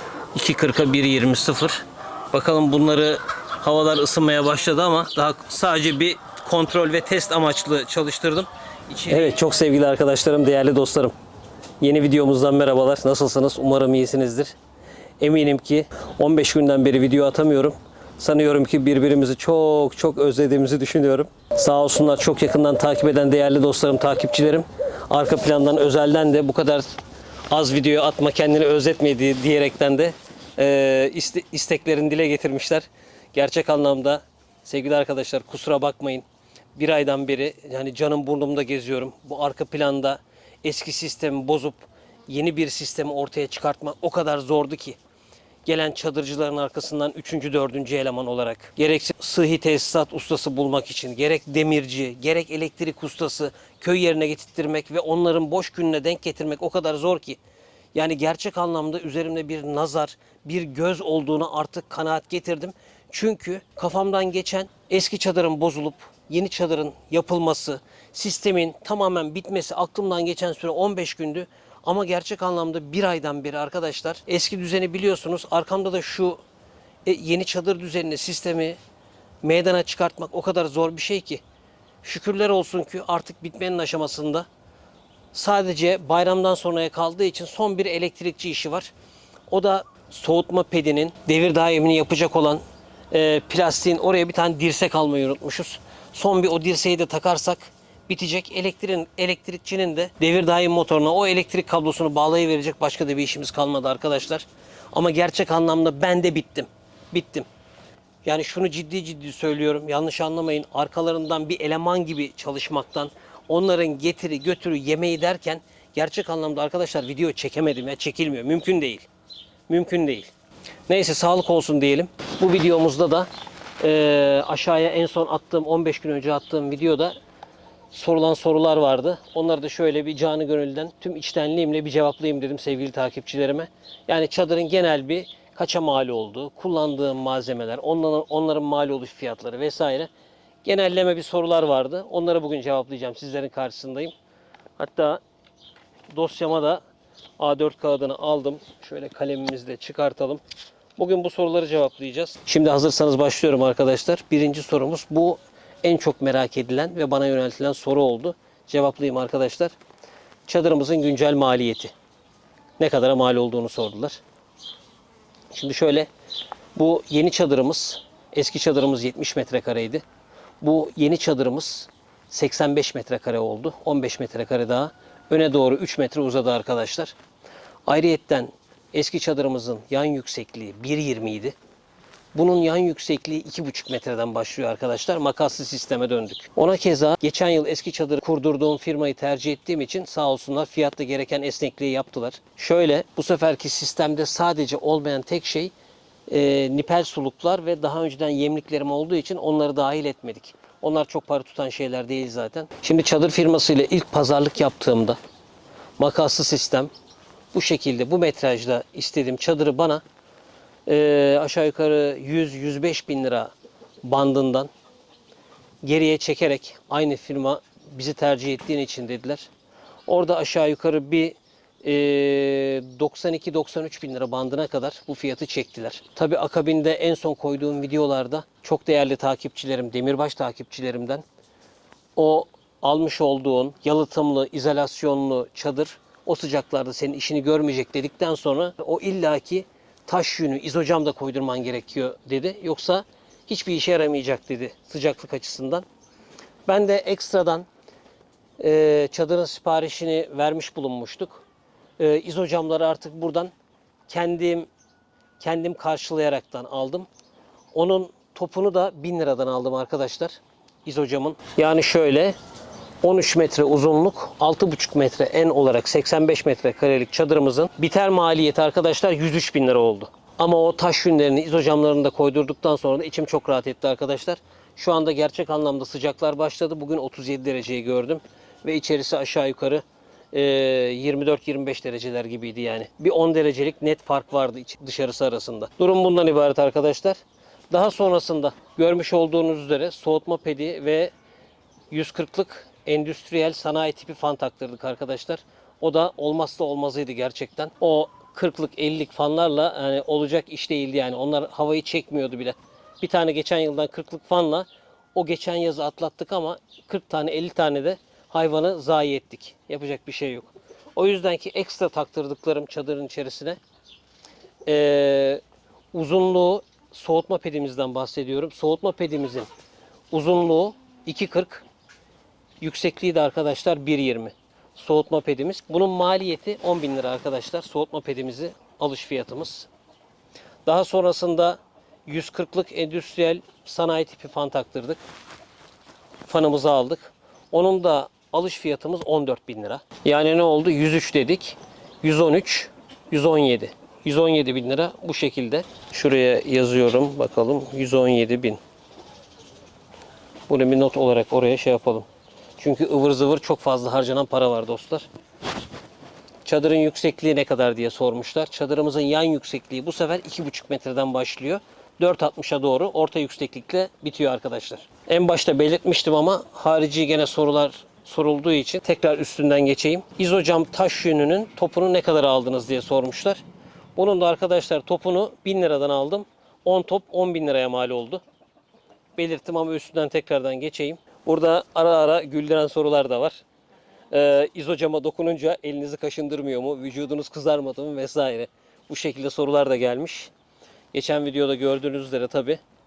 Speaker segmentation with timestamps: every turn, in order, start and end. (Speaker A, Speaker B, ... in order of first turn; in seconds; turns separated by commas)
Speaker A: 0.3-11.2, Speaker A: 11.8-14.5, Speaker A: 15.2-26.9, Speaker A: 27.5-45.0, Speaker A: 45.7-57.4, Speaker A: 57.9-76.4, Speaker A: 77.0-78.8, Speaker A: 79.4-81.4, Speaker A: 82.0-84.5, Speaker A: 85.3-88.9, Speaker A: 89.5-107.5, Speaker A: 108.2-119.1, Speaker A: 119.7-120.3, Speaker A: 120.9-123.3, Speaker A: 123.8-127.2, Speaker A: 127.9-140.1, Speaker A: 140.6-144.1, Speaker A: 144.8-145.2, Speaker A: 146.1-146.8, Speaker A: 147.4-150.4, Speaker A: 151.0-159.8, Speaker A: 160.5-161.9, Speaker A: 162.8-164.2, Speaker A: 165.5-166.1, Speaker A: 166.8-170.0, Speaker A: 170.6-177.2, Speaker A: 177.9-181.6, Speaker A: 182.3-195.7, Speaker A: 196.3-205.2, Speaker A: 206.0-206.9, Speaker A: 207.5-210.0, Speaker A: 210.9-214.7, Speaker A: 215.8-219.5, Speaker A: 220.1-231.2, Speaker A: 232.2-245.9, Speaker A: 246.7-247.7, Speaker A: 248.6-251.4, Speaker A: 252.0-253.5, Speaker A: 254.1-254.7, Speaker A: 255.4-257.1, Speaker A: 257.7-262.4, Speaker A: 263.0-287.2, Speaker A: 287.7-291.1, Speaker A: 291.9-313.6, Speaker A: 314.7-315.4, Speaker A: 315.9-319.5, Speaker A: 320.1-321.6, Speaker A: 322.6-329.7, Speaker A: 330.7-335.0, Speaker A: 336.3-348.6, Speaker A: 350.5-352.1, Speaker A: 352.6-355.1, Speaker A: 356.4-373.4, Speaker A: 374.0-378.2, Speaker A: 379.2-383.4, Speaker A: 384.1-390.3, Speaker A: 390.9-392.6